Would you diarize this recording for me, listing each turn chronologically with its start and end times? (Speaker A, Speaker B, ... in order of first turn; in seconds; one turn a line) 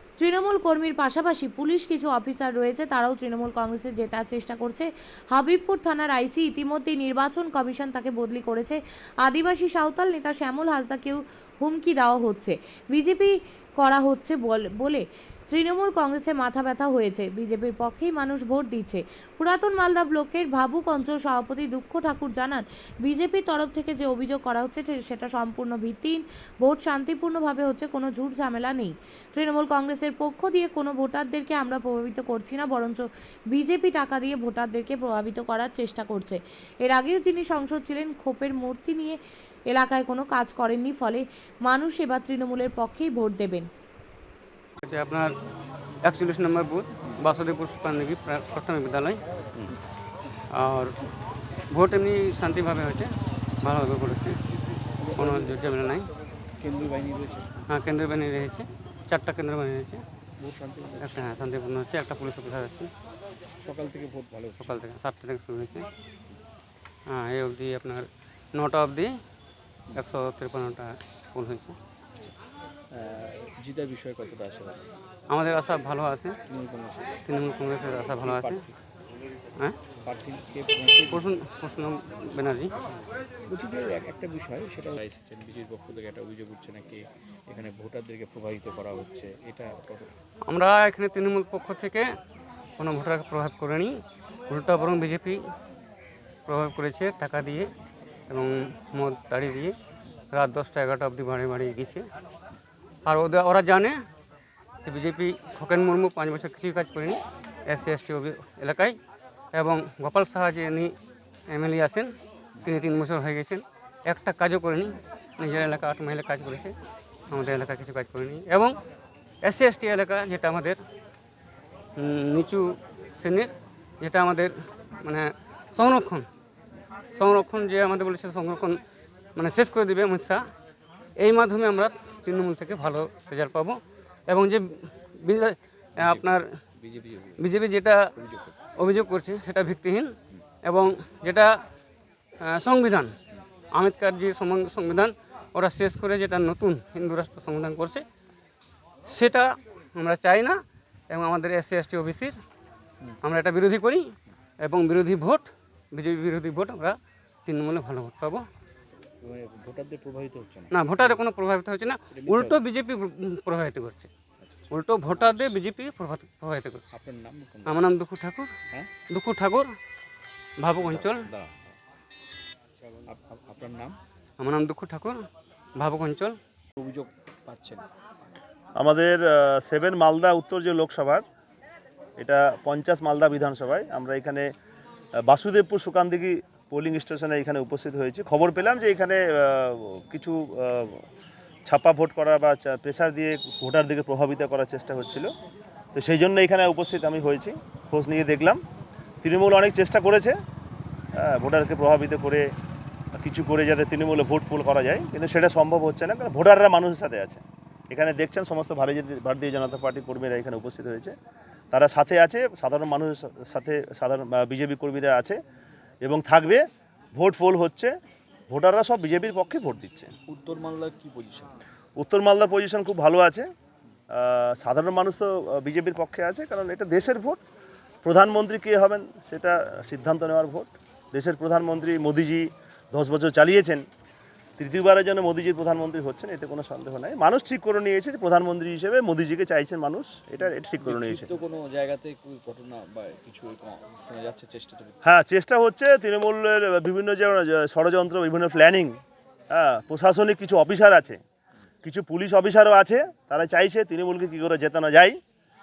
Speaker A: 0.2-39.2
Speaker A: 39.7-43.7
Speaker B: 44.8-45.3
Speaker B: 46.0-49.2
Speaker B: 50.6-51.0
Speaker B: 51.7-53.1
Speaker B: 53.6-54.4
Speaker C: 55.0-55.6
Speaker B: 55.1-56.1
Speaker C: 56.6-57.5
Speaker B: 57.7-60.0
Speaker C: 60.4-61.3
Speaker B: 61.0-62.9
Speaker C: 63.6-64.8
Speaker B: 64.6-65.8
Speaker B: 67.1-69.1
Speaker B: 69.9-71.8
Speaker C: 72.9-74.8
Speaker B: 75.3-76.3
Speaker C: 76.5-77.2
Speaker B: 77.2-78.7
Speaker C: 78.2-78.7
Speaker C: 80.0-81.3
Speaker B: 81.1-82.7
Speaker C: 83.5-90.2
Speaker B: 90.5-92.1
Speaker B: 92.8-93.9
Speaker B: 94.5-95.4
Speaker B: 96.5-97.7
Speaker B: 98.3-99.8
Speaker B: 100.3-102.1
Speaker B: 103.0-104.0
Speaker B: 104.8-109.0
Speaker B: 109.5-111.0
Speaker B: 111.5-112.1
Speaker B: 112.6-116.8
Speaker B: 117.3-118.8
Speaker B: 119.4-120.8
Speaker B: 122.0-123.5
Speaker B: 124.0-126.2
Speaker B: 127.1-128.8
Speaker B: 129.3-130.4
Speaker B: 131.2-134.6
Speaker B: 135.2-136.5
Speaker C: 136.0-137.4
Speaker B: 137.4-138.1
Speaker C: 138.2-138.6
Speaker B: 138.8-141.5
Speaker B: 142.4-143.1
Speaker B: 143.7-148.0
Speaker B: 149.0-152.3
Speaker B: 153.2-154.1
Speaker B: 154.6-158.4
Speaker C: 159.2-161.2
Speaker B: 160.7-164.1
Speaker C: 162.1-162.6
Speaker C: 164.4-164.7
Speaker B: 164.7-166.9
Speaker C: 166.9-167.9
Speaker B: 167.7-168.5
Speaker B: 169.1-169.7
Speaker B: 170.6-171.2
Speaker C: 170.9-171.8
Speaker C: 173.1-174.0
Speaker B: 174.4-175.2
Speaker B: 175.8-176.3
Speaker C: 176.8-177.8
Speaker D: 178.8-181.2
Speaker D: 182.2-184.5
Speaker D: 185.3-191.0
Speaker D: 191.7-195.3
Speaker D: 195.9-198.6
Speaker D: 199.2-200.3
Speaker D: 201.2-202.5
Speaker D: 203.2-211.1
Speaker D: 211.7-215.4
Speaker D: 216.0-216.6
Speaker D: 217.1-217.9
Speaker D: 218.5-220.1
Speaker C: 220.3-221.6
Speaker D: 222.0-223.5
Speaker D: 224.1-227.4
Speaker D: 228.0-233.8
Speaker D: 234.6-241.3
Speaker C: 240.8-245.0
Speaker D: 245.0-248.9
Speaker D: 249.5-251.2
Speaker D: 251.8-255.2